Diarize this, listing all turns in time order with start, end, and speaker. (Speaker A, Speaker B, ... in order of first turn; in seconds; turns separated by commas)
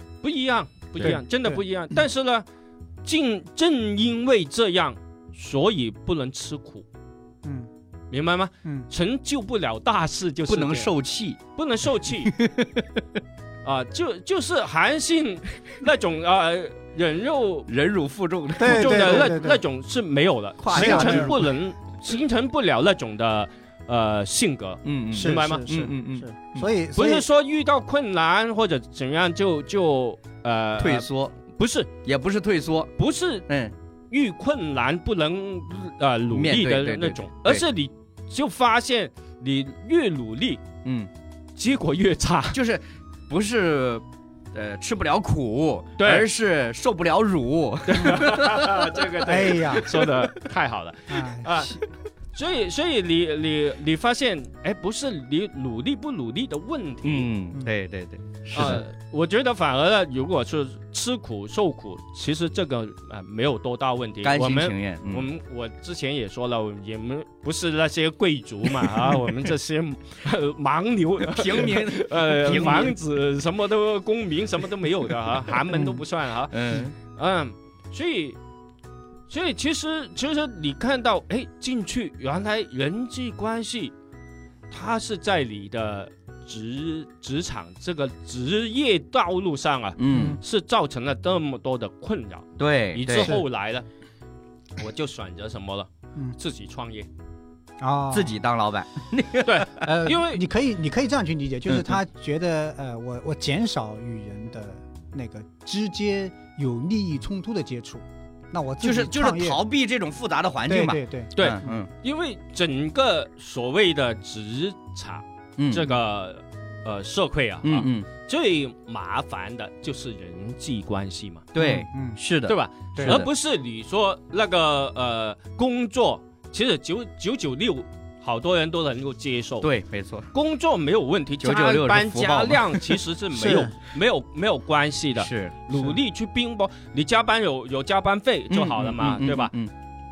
Speaker A: 0.2-2.4, Speaker B: 1.0-1.6, Speaker A: 3.0-6.8, Speaker B: 7.4-7.7, Speaker A: 8.1-10.9, Speaker C: 10.5-11.4, Speaker A: 11.5-12.3, Speaker C: 12.2-13.2, Speaker A: 13.6-17.7, Speaker C: 17.7-19.4, Speaker B: 18.6-19.6, Speaker A: 18.6-25.6, Speaker C: 20.6-21.5, Speaker B: 20.7-21.3, Speaker C: 24.8-26.3, Speaker B: 25.1-27.2, Speaker A: 26.6-31.9, Speaker C: 30.8-31.4, Speaker C: 32.0-32.9, Speaker A: 33.0-33.5, Speaker C: 33.5-33.7, Speaker A: 34.1-40.6, Speaker C: 36.3-37.6, Speaker C: 40.8-41.1, Speaker A: 41.5-42.6, Speaker C: 42.5-49.1, Speaker A: 46.0-46.3, Speaker A: 47.9-51.7, Speaker B: 49.2-49.9, Speaker C: 49.9-50.3, Speaker B: 51.1-51.8, Speaker A: 52.3-57.3, Speaker C: 57.0-58.8, Speaker A: 58.5-78.4, Speaker C: 64.2-65.3, Speaker C: 71.2-73.0, Speaker C: 76.5-77.0, Speaker A: 79.3-83.9, Speaker A: 84.7-93.8, Speaker C: 90.0-90.4, Speaker B: 90.1-90.4, Speaker C: 92.6-93.3, Speaker A: 94.8-97.1, Speaker B: 97.8-98.4, Speaker C: 98.1-99.8, Speaker A: 99.4-100.4, Speaker B: 99.8-109.6, Speaker C: 101.7-102.0, Speaker C: 108.8-111.9, Speaker B: 110.7-111.7, Speaker A: 111.3-121.5, Speaker C: 115.6-115.9, Speaker C: 117.6-118.1, Speaker C: 121.5-123.3, Speaker B: 121.5-122.2, Speaker A: 122.5-129.7, Speaker B: 122.9-123.2, Speaker C: 129.6-130.3, Speaker A: 130.3-139.5, Speaker C: 131.4-133.0, Speaker B: 133.3-133.7, Speaker C: 135.2-135.6, Speaker C: 138.5-139.7